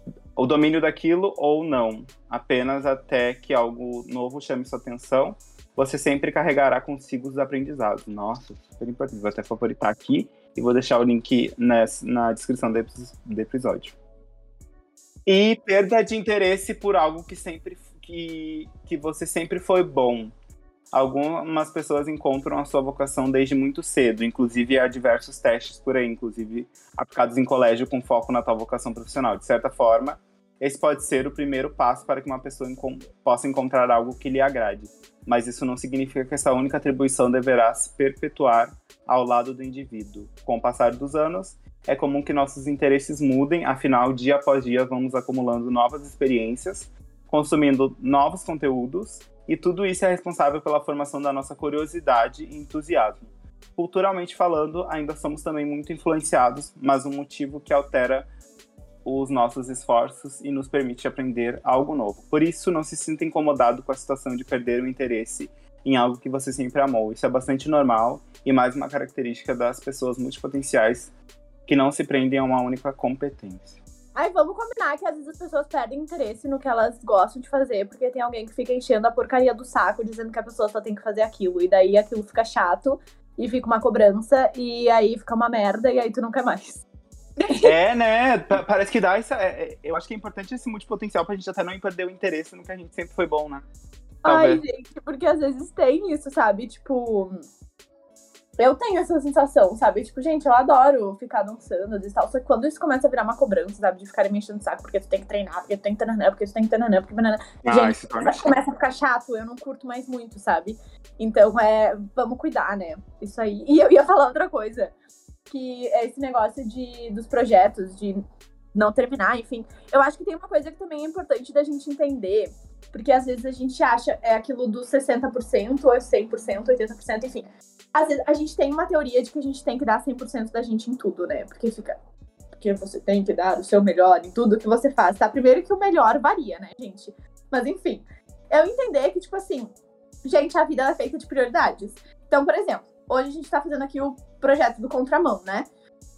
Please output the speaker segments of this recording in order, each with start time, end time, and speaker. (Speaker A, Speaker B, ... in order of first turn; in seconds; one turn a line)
Speaker A: 0.4-13.9
Speaker A: 15.3-20.3
Speaker A: 20.9-58.3
Speaker A: 59.0-71.1
Speaker A: 71.7-73.8
Speaker B: 74.2-86.8
Speaker B: 87.4-87.7
Speaker A: 87.6-93.7
Speaker B: 94.2-97.4
Speaker A: 94.2-94.6
Speaker B: 98.6-114.9
Speaker A: 107.7-108.5
Speaker B: 115.5-118.2
Speaker B: 118.8-132.0
Speaker B: 132.6-139.7
Speaker B: 140.2-145.7